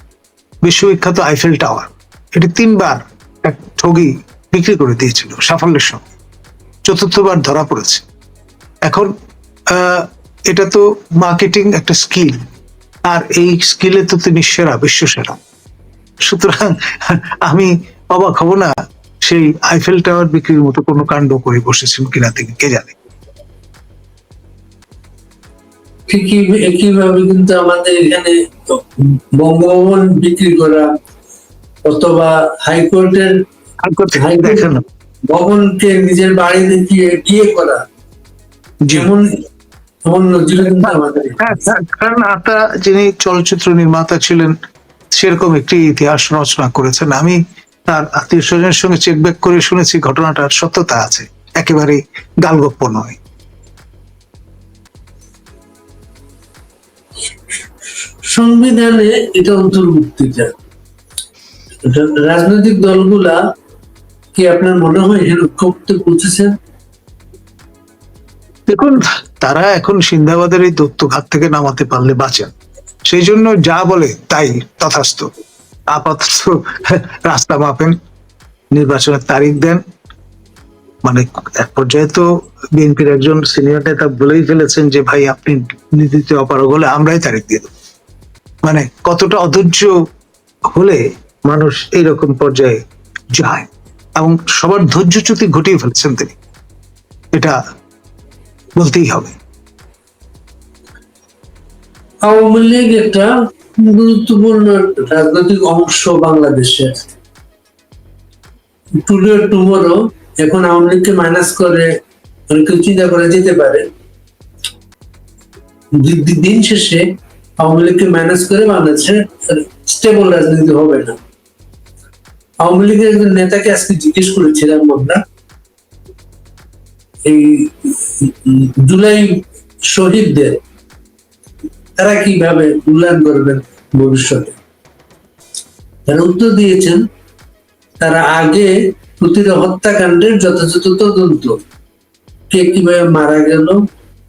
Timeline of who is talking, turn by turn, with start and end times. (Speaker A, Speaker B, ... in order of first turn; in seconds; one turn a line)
Speaker A: 0.6-6.0
Speaker A: 6.8-8.1
Speaker A: 8.8-9.1
Speaker A: 9.7-12.4
Speaker A: 13.1-15.4
Speaker A: 16.3-18.7
Speaker A: 19.2-23.0
Speaker B: 26.1-30.9
Speaker B: 31.9-33.4
Speaker A: 33.8-34.8
Speaker B: 34.1-34.7
Speaker B: 35.3-37.9
Speaker B: 38.9-39.4
Speaker B: 40.1-41.4
Speaker A: 40.8-44.5
Speaker A: 45.1-53.2
Speaker B: 58.2-60.5
Speaker B: 61.8-63.4
Speaker B: 64.3-66.5
Speaker A: 68.7-72.5
Speaker A: 73.1-75.3
Speaker A: 75.9-78.0
Speaker A: 78.7-79.8
Speaker A: 81.0-87.7
Speaker A: 88.6-89.9
Speaker A: 90.7-92.8
Speaker A: 93.3-96.3
Speaker A: 98.8-99.3
Speaker B: 102.2-107.1
Speaker B: 109.0-111.9
Speaker B: 112.5-113.9
Speaker B: 116.0-117.1
Speaker B: 117.6-121.2
Speaker B: 122.6-125.2
Speaker B: 127.3-130.6
Speaker B: 132.0-134.6
Speaker B: 136.1-137.0
Speaker B: 138.0-141.6
Speaker B: 142.5-143.8